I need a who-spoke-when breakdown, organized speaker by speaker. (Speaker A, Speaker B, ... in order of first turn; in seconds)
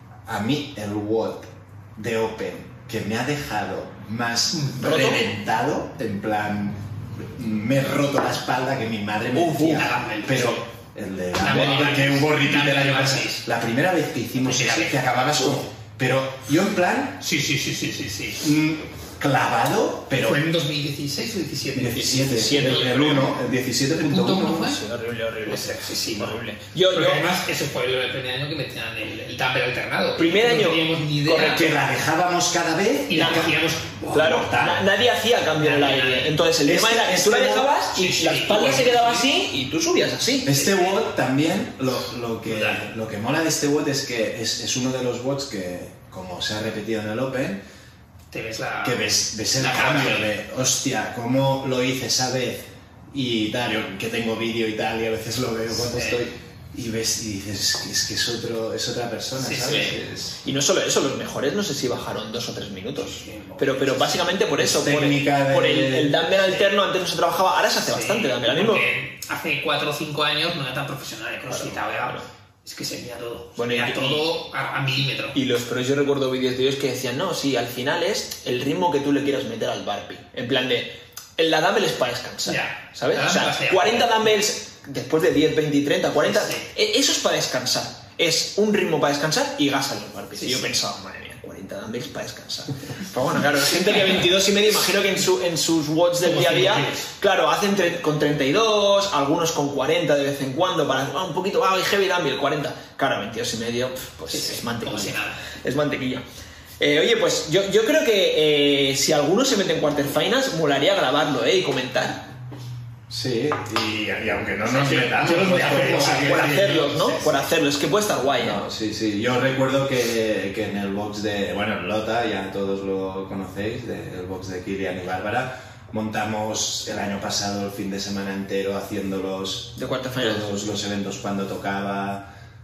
Speaker A: 0.2-17.2, 18.4-20.4, 21.7-24.8, 31.5-33.6, 36.6-37.7, 40.4-47.6, 48.8-60.2, 64.5-66.2, 113.1-116.6, 118.4-132.2
Speaker B: 4.5-4.8, 9.7-10.6, 11.4-13.4, 14.4-15.4, 17.2-18.5, 20.2-23.2, 23.9-24.8, 25.4-31.8, 33.1-34.8, 35.6-36.4, 37.9-39.3, 40.5-41.0, 42.5-42.9, 48.3-50.3, 55.8-56.2, 59.4-60.2, 63.0-64.4, 66.4-66.7, 67.8-75.3, 82.5-84.2, 86.2-86.7, 90.4-90.7, 96.2-97.1, 104.3-105.4, 114.8-117.4
Speaker C: 4.8-5.2, 9.3-9.9, 11.5-11.8, 22.3-23.3, 24.6-27.3, 30.2-31.7, 33.1-33.5, 34.1-40.5, 60.4-68.8, 71.5-72.3, 73.6-74.3, 75.3-106.2, 106.8-112.2, 114.8-118.6, 129.8-130.7